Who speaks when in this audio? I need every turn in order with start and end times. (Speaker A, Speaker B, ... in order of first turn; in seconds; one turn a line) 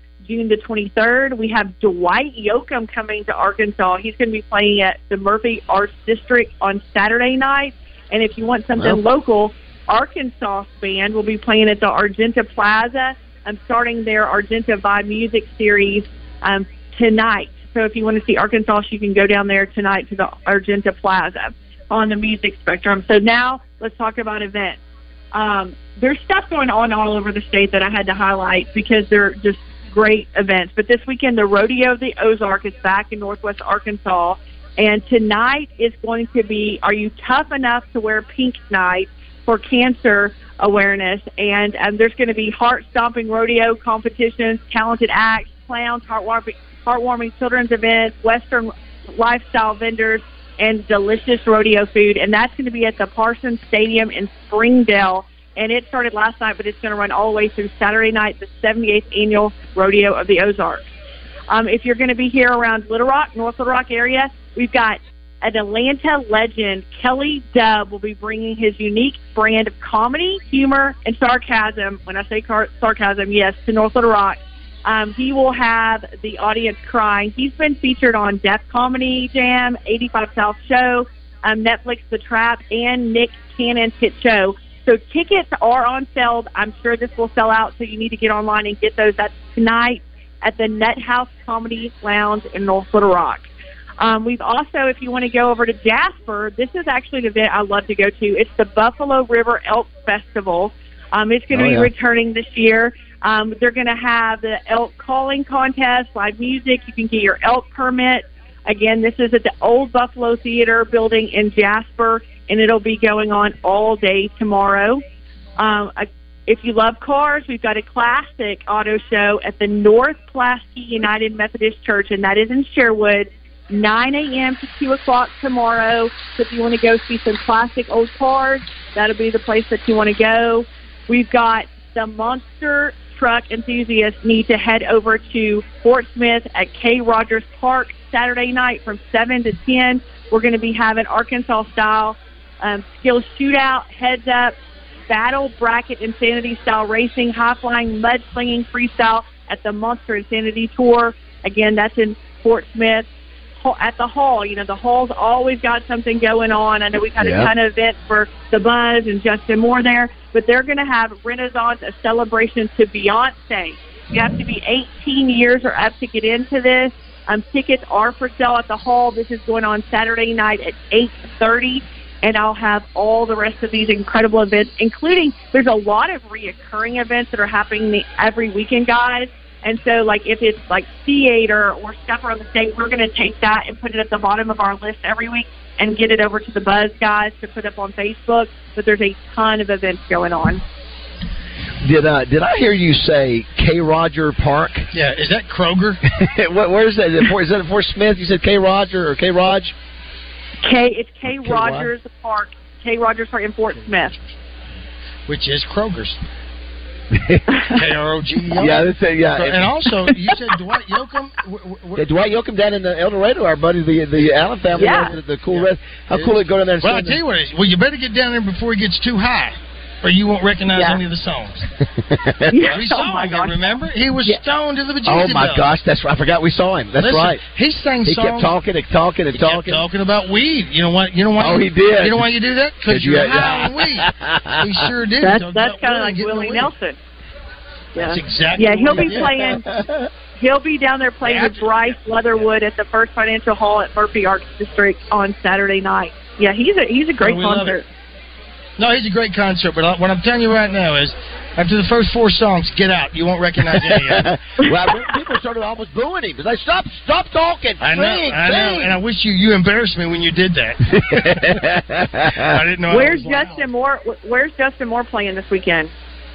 Speaker A: 0.2-24.8
Speaker B: 8.7-9.0
Speaker A: 25.3-60.8
Speaker A: 61.5-93.5
Speaker A: 94.0-115.0
Speaker B: 101.5-101.9
Speaker A: 115.6-144.6
Speaker A: 145.1-153.1
Speaker A: 153.6-190.6
Speaker B: 157.2-157.5
Speaker B: 191.8-194.9
Speaker C: 194.9-196.0
Speaker B: 196.1-199.7
Speaker A: 200.6-204.2
Speaker C: 201.5-201.8
Speaker C: 205.3-206.2
Speaker B: 207.1-207.4
Speaker A: 207.5-207.8
Speaker C: 207.7-212.1
Speaker B: 208.5-209.7
Speaker B: 211.9-217.2
Speaker A: 214.8-215.1
Speaker C: 214.8-221.6
Speaker B: 222.0-222.7
Speaker A: 222.5-223.7
Speaker C: 222.7-225.7
Speaker B: 225.0-227.4
Speaker C: 227.0-228.5
Speaker B: 228.0-229.8
Speaker C: 229.3-234.1
Speaker B: 231.4-232.2
Speaker B: 232.9-234.8
Speaker C: 234.6-236.7
Speaker A: 235.2-237.0
Speaker A: 237.9-239.6
Speaker C: 238.0-239.3
Speaker B: 238.9-240.1
Speaker A: 240.4-247.8
Speaker C: 241.2-242.4
Speaker C: 247.2-247.8
Speaker C: 248.8-254.3
Speaker B: 253.7-259.0
Speaker C: 257.8-261.6
Speaker B: 260.9-262.6
Speaker C: 262.4-263.6
Speaker A: 262.9-265.9